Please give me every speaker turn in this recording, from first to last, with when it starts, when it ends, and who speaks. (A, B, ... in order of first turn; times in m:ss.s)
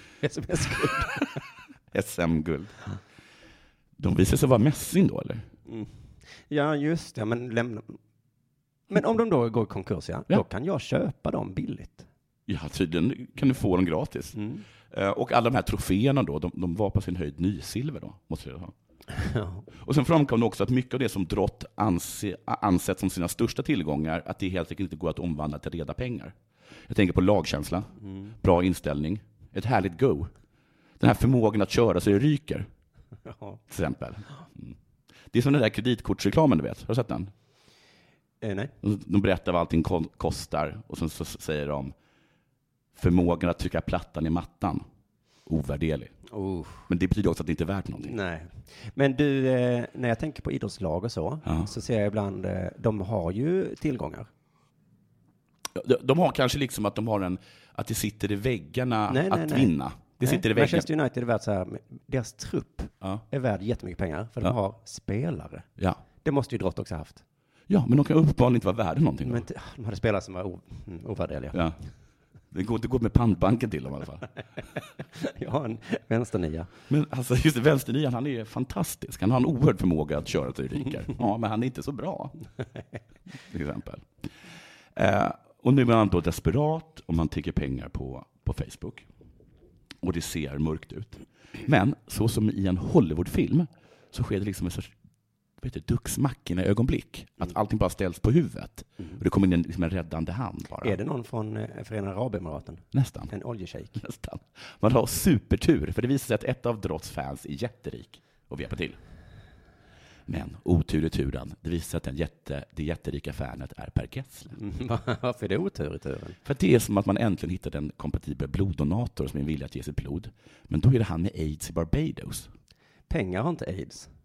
0:00.2-0:01.4 A
0:01.9-0:02.8 B
0:04.0-0:05.5 B
0:06.5-0:08.0 A
0:08.9-0:12.1 A
0:12.5-0:14.4 B
0:14.4-0:14.6 A
0:14.9-0:18.7 B
0:19.2-0:19.6 A
0:19.8-0:26.3 B
0:26.9-0:27.9 B
0:28.0-0:28.3 A
0:28.4-0:30.3 B
0:31.0-0:32.7 B
0:33.3-0:33.6 A
0:33.7-0:34.8 B
0:35.3-0:37.3 B
0:38.4-0:38.7 A
0:38.8-0:41.9 B
0:43.0-0:44.8 B
0:45.5-0:46.1 B
0:46.3-0:46.8 A
0:46.9-0:48.2 B
0:48.0-0:54.3 A
0:51.4-0:51.7 B
0:55.8-1:00.9 B
0:59.1-1:05.7 A
1:06.2-1:07.2 A
1:07.7-1:09.5 B
1:09.2-1:11.6 A
1:12.5-1:14.3 B
1:15.2-1:16.7 A
1:16.9-1:22.4 B
1:23.5-1:24.1 B
1:25.0-1:29.1 B
1:30.0-1:34.9 B
1:35.6-1:41.0 B
1:40.8-1:44.0 A
1:42.9-1:43.3 B
1:44.0-1:49.0 B
1:50.3-1:54.6 B
1:54.6-1:56.4 A
1:56.4-2:02.5 B
2:03.1-2:04.1 A